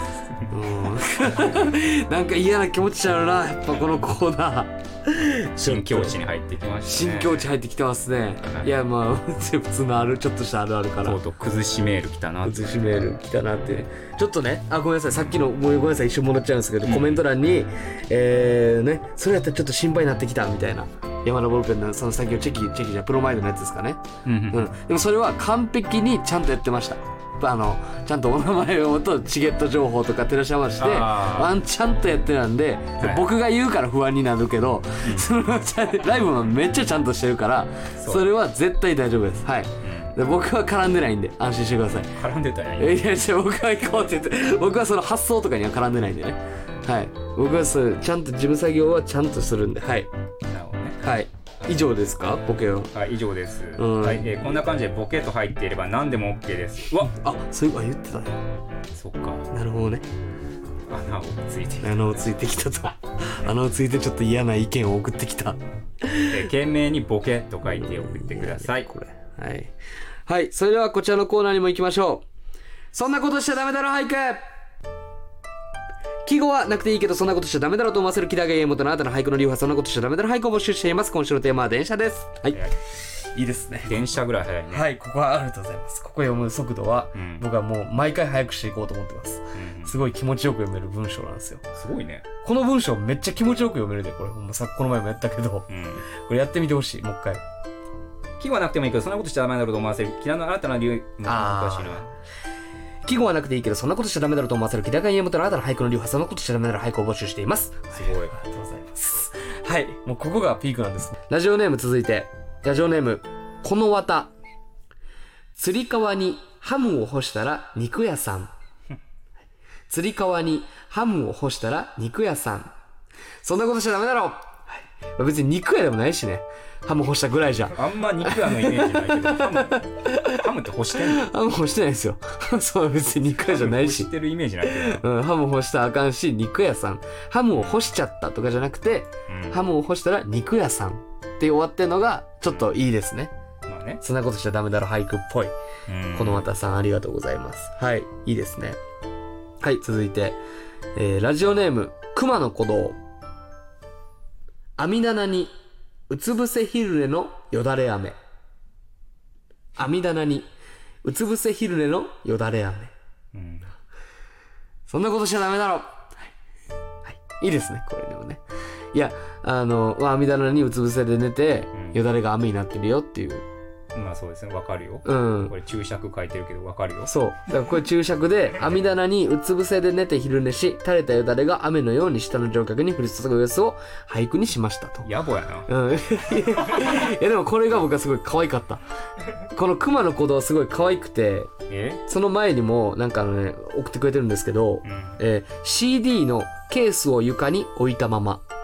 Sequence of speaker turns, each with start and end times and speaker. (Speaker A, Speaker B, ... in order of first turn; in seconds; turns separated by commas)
Speaker A: 0.5-6.2, Speaker B: 5.6-7.5, Speaker A: 6.8-11.2, Speaker B: 8.4-8.7, Speaker B: 11.0-12.9, Speaker A: 12.4-42.1, Speaker B: 16.8-17.2, Speaker B: 24.2-24.7, Speaker B: 30.8-31.6, Speaker B: 33.0-33.2, Speaker B: 35.0-35.3, Speaker B: 38.0-38.3, Speaker B: 39.8-40.1, Speaker B: 42.2-43.0, Speaker A: 42.8-50.1, Speaker B: 50.5-51.0, Speaker A: 51.0-52.9, Speaker B: 51.6-52.0, Speaker B: 52.9-57.1, Speaker A: 53.8-54.5, Speaker A: 56.9-58.4, Speaker B: 58.9-59.5, Speaker A: 59.5-60.1, Speaker B: 60.9-62.3, Speaker A: 61.8-66.5, Speaker B: 66.2-68.9, Speaker A: 67.7-69.7, Speaker A: 70.3-72.3, Speaker A: 72.9-74.4, Speaker A: 76.2-84.1, Speaker B: 83.8-84.9, Speaker A: 84.7-91.7, Speaker B: 87.1-87.5, Speaker B: 89.5-90.0, Speaker B: 91.7-92.3, Speaker A: 92.4-97.4, Speaker B: 95.7-96.0, Speaker B: 98.4-102.1, Speaker A: 101.2-102.1, Speaker A: 103.0-114.3, Speaker B: 107.9-108.4, Speaker A: 115.5-118.5, Speaker A: 119.9-122.7, Speaker A: 123.4-134.1, Speaker B: 127.7-131.3, Speaker B: 133.4-135.0, Speaker A: 134.6-143.3, Speaker B: 139.3-139.6, Speaker B: 143.7-144.0, Speaker A: 144.0-145.5, Speaker B: 145.9-146.5, Speaker A: 146.1-148.8, Speaker A: 149.6-150.4, Speaker A: 150.9-153.0, Speaker A: 154.8-155.5, Speaker A: 156.1-158.2, Speaker A: 159.8-160.5, Speaker A: 161.0-162.9, Speaker B: 163.3-163.7, Speaker A: 164.9-166.3, Speaker A: 167.1-168.4, Speaker A: 168.9-173.4, Speaker B: 173.9-177.1, Speaker A: 175.1-175.6, Speaker A: 177.1-185.1, Speaker B: 185.0-185.7, Speaker A: 185.7-188.8, Speaker A: 189.5-191.5, Speaker B: 191.7-192.0, Speaker A: 192.1-198.4, Speaker B: 194.8-195.2